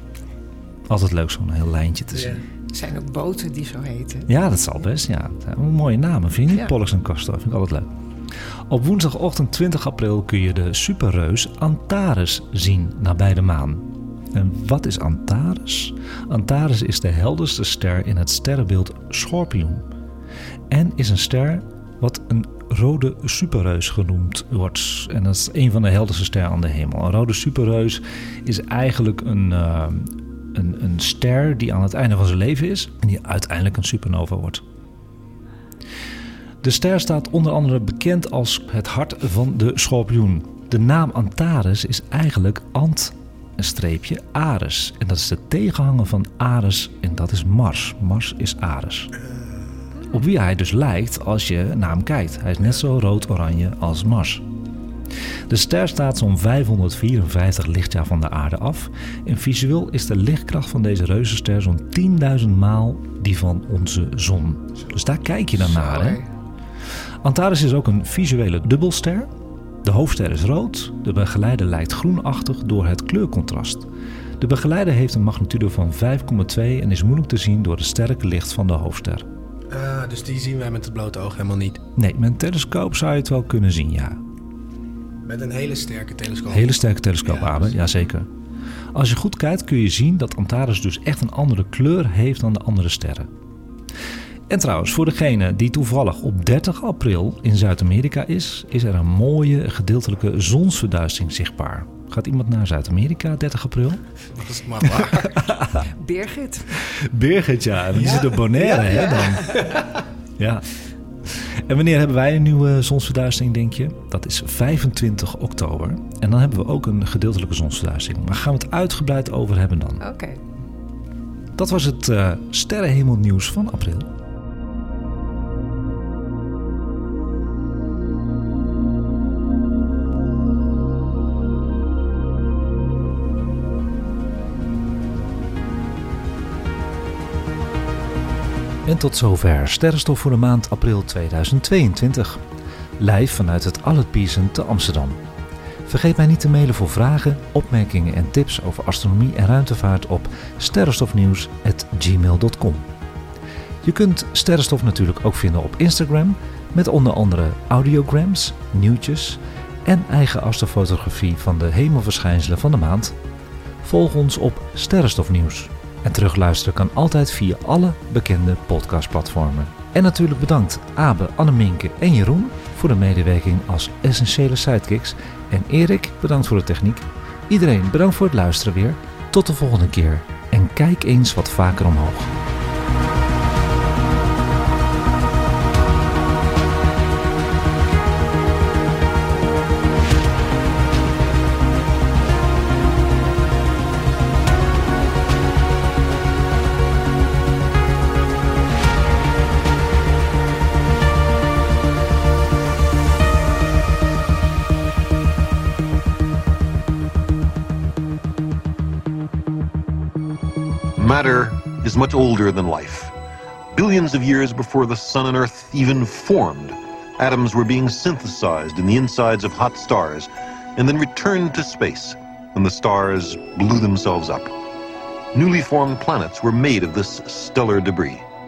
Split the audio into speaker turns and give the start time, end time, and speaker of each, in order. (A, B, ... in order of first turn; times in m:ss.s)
0:00.9-0:02.4 A
0:02.1-0:02.4 B
0:02.7-0:04.3 C
0:04.3-0:07.9 A
0:08.7-0:19.8 A
0:20.7-0:34.6 A
0:36.6-0:49.1 A
0:50.1-0:54.4 A
0:55.5-1:06.2 A
1:05.6-1:06.3 C
1:07.2-1:09.3 A
1:09.8-1:13.9 A
1:14.4-1:19.3 A
1:19.7-1:21.8 B
1:21.9-1:24.2 A
1:25.2-1:27.8 B
1:26.5-1:28.3 A
1:28.9-1:33.3 A
1:34.5-1:44.0 A
1:44.3-1:45.3 B
1:44.8-1:45.8 A
1:45.8-1:46.9 C
1:46.8-1:49.7 A
1:47.9-1:49.9 B
1:50.4-1:50.7 A
1:51.2-2:00.0 A
2:00.0-2:00.4 C
2:01.5-2:04.1 A
2:18.8-2:22.4 A
2:23.0-2:25.2 A
2:25.8-2:32.9 A
2:33.8-2:43.2 A
2:43.8-3:02.3 A
3:31.0-3:33.1 D
3:33.7-3:44.5 D
3:45.3-3:48.2 D